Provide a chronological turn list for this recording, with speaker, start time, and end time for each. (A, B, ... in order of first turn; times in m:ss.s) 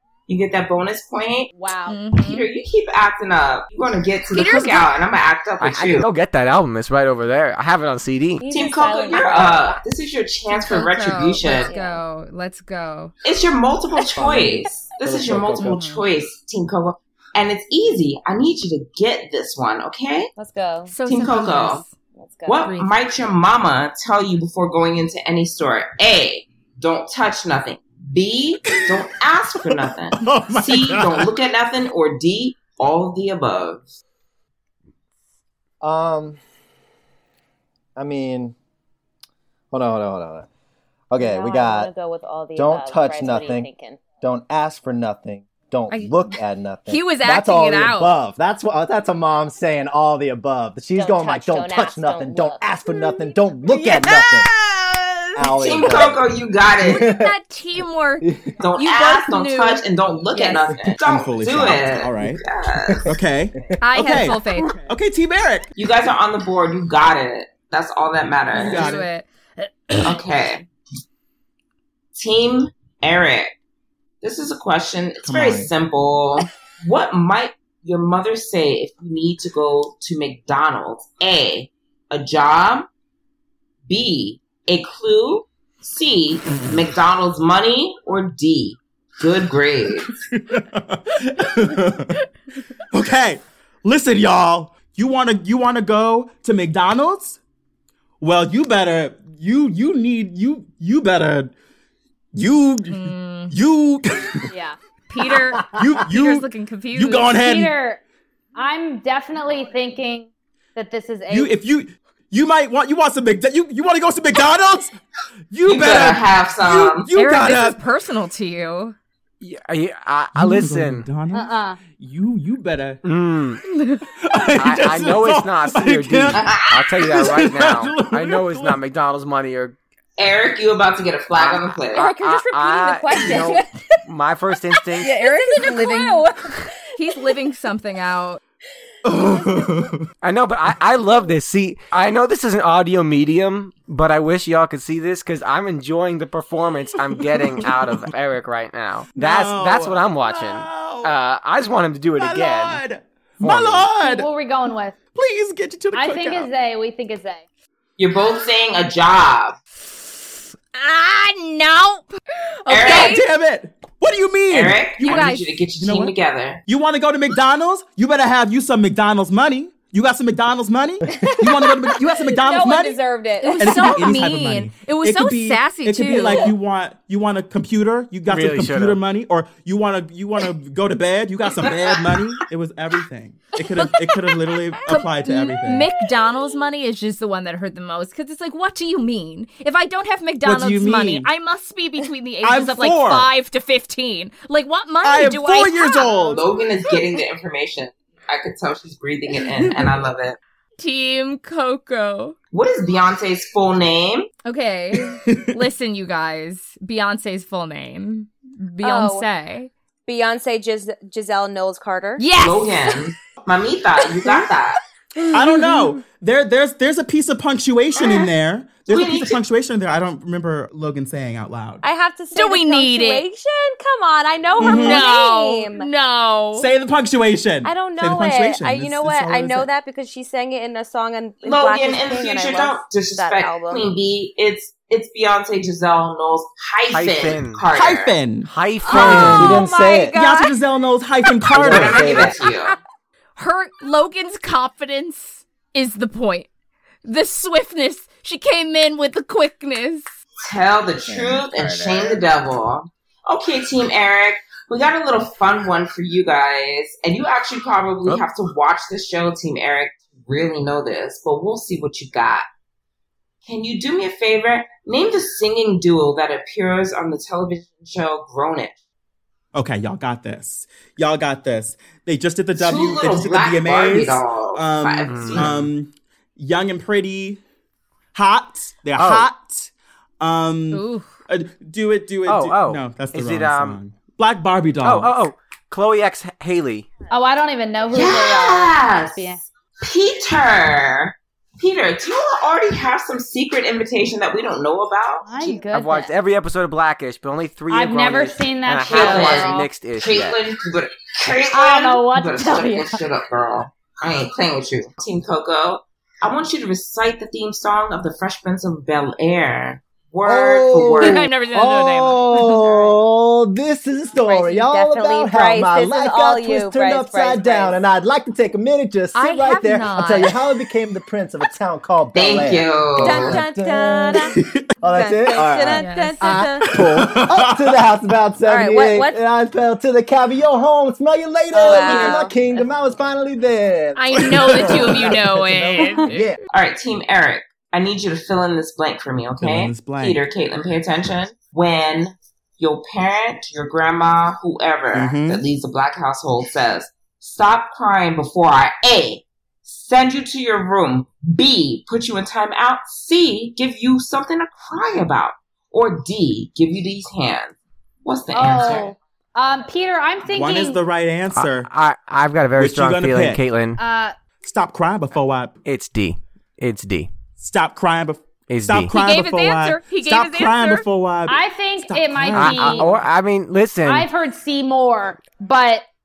0:00.3-0:01.5 A
0:01.6-0:02.0 B
0:01.9-0:02.5 C
0:02.1-0:06.1 A
0:04.3-0:04.9 C
0:05.6-0:08.5 D
0:08.4-0:09.8 E
0:08.5-0:11.7 A
0:10.5-0:13.1 C
0:11.4-0:12.0 E
0:13.2-0:20.3 A
0:14.1-0:15.8 F
0:15.6-0:16.0 C
0:20.4-0:21.0 E
0:20.9-0:21.9 C
0:21.1-0:21.8 A
0:22.1-0:22.8 E
0:22.5-0:34.0 A
0:22.6-0:22.9 C
0:29.7-0:31.3 G
0:35.8-0:36.4 F
0:38.0-0:38.6 F
0:39.7-0:40.5 F
0:41.1-0:41.9 F
0:41.2-0:44.0 E
0:42.6-0:43.7 F
0:44.2-0:54.5 F
0:45.9-0:48.1 C
0:51.0-0:52.6 E
0:52.9-0:55.7 C
0:55.4-0:56.2 F
0:55.6-0:57.1 A
0:56.8-0:57.4 F
0:56.9-0:59.8 C
0:58.2-0:58.5 F
0:58.6-1:03.1 A
1:01.0-1:02.4 G
1:03.0-1:05.7 G
1:03.8-1:04.8 C
1:05.8-1:08.8 A
1:08.5-1:09.1 G
1:08.6-1:10.2 C
1:10.0-1:10.6 A
1:12.1-1:13.5 A
1:14.2-1:22.9 A
1:15.3-1:15.7 G
1:23.9-1:30.2 A
1:30.3-1:32.2 G
1:32.9-1:37.4 G
1:38.2-1:41.5 G
1:42.3-1:44.5 G
1:42.9-1:43.5 C
1:44.5-1:44.8 B
1:45.1-1:47.3 C
1:45.6-1:47.8 G
1:47.4-1:48.0 B
1:48.6-1:51.6 B
1:51.3-1:55.0 G
1:55.5-1:57.8 G
1:55.6-1:57.1 A
1:57.1-1:59.0 C
1:59.4-2:01.1 D
2:00.4-2:03.0 G
2:01.3-2:01.8 B
2:03.0-2:03.6 D
2:03.7-2:04.0 C
2:04.2-2:08.8 G
2:04.6-2:09.8 D
2:06.3-2:06.9 A
2:10.2-2:12.1 A
2:11.4-2:15.1 D
2:11.9-2:13.7 E
2:15.0-2:17.3 E
2:15.0-2:16.2 C
2:16.9-2:18.4 C
2:19.0-2:20.1 G
2:20.2-2:32.8 D
2:27.1-2:28.1 G
2:29.2-2:31.1 G
2:32.2-2:34.3 G
2:33.4-2:33.9 D
2:33.9-2:35.0 B
2:35.1-2:36.5 G
2:35.9-2:37.4 B
2:38.0-2:39.6 A
2:40.7-2:43.2 C
2:42.7-2:43.2 A
2:42.8-2:46.1 G
2:44.5-2:46.6 A
2:45.0-2:45.5 C
2:46.7-2:53.0 G
2:51.1-2:54.0 E
2:53.4-2:56.5 C
2:53.6-3:05.9 G
2:58.3-2:59.0 D
3:01.6-3:02.1 A
3:03.8-3:04.0 C
3:04.9-3:17.0 C
3:10.4-3:11.3 G
3:12.4-3:13.3 G
3:15.0-3:16.4 G
3:16.3-3:20.4 A
3:20.8-3:22.4 C
3:22.5-3:24.3 A
3:24.4-3:29.7 C
3:25.0-3:25.6 G
3:28.8-3:29.3 E
3:30.1-3:32.2 E
3:32.2-3:33.0 C
3:32.4-3:34.8 A
3:35.2-3:35.8 C
3:35.3-3:41.8 G
3:38.9-3:39.4 A
3:41.8-3:45.9 E
3:42.3-3:43.2 C
3:44.6-3:45.0 G
3:44.6-3:46.7 C
3:46.6-3:49.7 G
3:47.6-3:53.9 E
3:51.4-3:58.2 A
3:56.9-3:57.6 D
3:57.7-4:02.2 G
3:58.5-3:59.6 D
3:58.9-3:59.4 C
3:58.9-4:00.2 F
3:59.8-4:00.5 E
4:01.5-4:02.4 F
4:01.6-4:02.8 A
4:03.4-4:06.5 C
4:07.0-4:10.1 C
4:10.5-4:22.4 A
4:11.0-4:12.2 F
4:23.4-4:28.7 A
4:29.5-4:37.4 G
4:32.6-4:35.6 A
4:35.0-4:35.6 D
4:38.1-4:45.2 G
4:39.0-4:39.3 D
4:40.7-4:41.1 C
4:42.3-4:43.8 D
4:44.8-4:46.9 D
4:47.1-4:49.4 B
4:47.9-4:55.6 A
4:55.2-4:56.1 B
4:55.7-5:00.4 D
4:57.7-4:59.7 B
4:58.9-5:11.3 A
5:01.5-5:03.0 B
5:10.2-5:36.4 F
5:11.0-5:12.7 C
5:14.2-5:17.8 E
5:19.1-5:20.3 C
5:22.1-5:23.4 A
5:23.0-5:26.8 E
5:24.4-5:24.7 G
5:25.8-5:26.5 C
5:26.6-5:27.8 G
5:28.4-5:29.2 E
5:31.5-5:32.6 E
5:31.6-5:32.2 B
5:34.0-5:36.2 C
5:34.3-5:35.2 G
5:36.5-5:58.9 A
5:39.4-5:40.2 G
5:44.9-5:45.4 G
5:58.3-6:00.8 B
6:00.3-6:01.7 G
6:01.3-6:03.8 D
6:02.6-6:03.4 G
6:03.8-6:04.1 B
6:04.4-6:05.6 G
6:05.6-6:07.1 D
6:07.4-6:12.9 G
6:08.5-6:09.0 D
6:08.9-6:10.8 C
6:11.3-6:12.9 B
6:12.3-6:14.1 D
6:13.8-6:15.8 B